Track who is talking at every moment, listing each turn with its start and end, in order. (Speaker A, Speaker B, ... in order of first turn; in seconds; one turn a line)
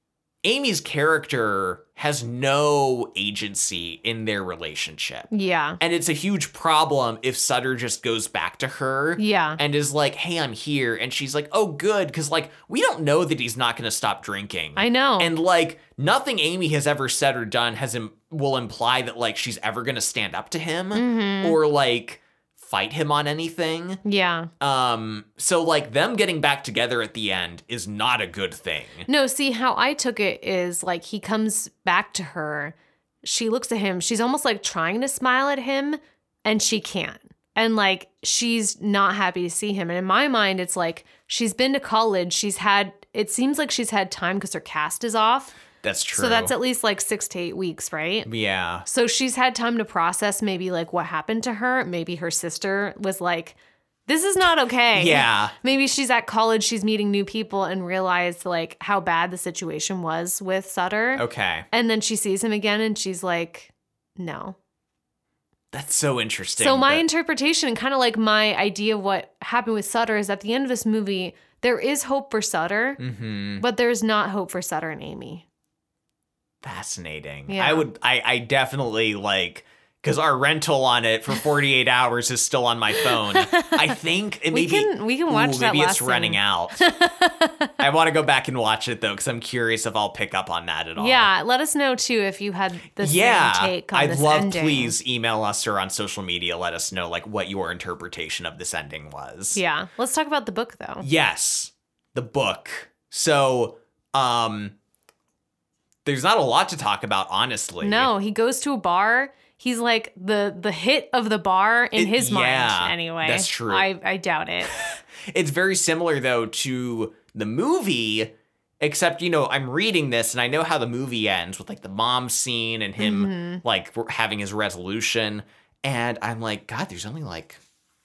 Speaker A: 0.4-5.3
Speaker B: 5.3-5.8
Speaker A: 5.8-24.0
Speaker B: 9.2-9.6
Speaker B: 14.8-15.3
Speaker B: 20.9-21.6
Speaker B: 24.0-24.5
Speaker A: 24.6-29.1
Speaker B: 29.1-45.5
Speaker A: 45.8-46.5
Speaker B: 46.1-48.3
Speaker A: 48.2-48.8
Speaker B: 48.8-64.5
Speaker A: 54.9-55.5
Speaker A: 61.1-61.7
Speaker A: 65.7-67.0
Speaker B: 66.6-73.0
Speaker A: 73.0-73.6
Speaker B: 73.6-75.4
Speaker A: 76.6-86.9
Speaker B: 77.5-77.8
Speaker B: 83.0-84.0
Speaker B: 84.5-87.7
Speaker A: 87.8-91.3
Speaker B: 91.0-95.0
Speaker A: 93.0-99.6
Speaker B: 99.5-101.0
Speaker A: 101.0-104.7
Speaker A: 106.0-108.1
Speaker B: 107.8-114.8
Speaker A: 112.0-113.9
Speaker A: 114.7-127.6
Speaker B: 123.0-123.6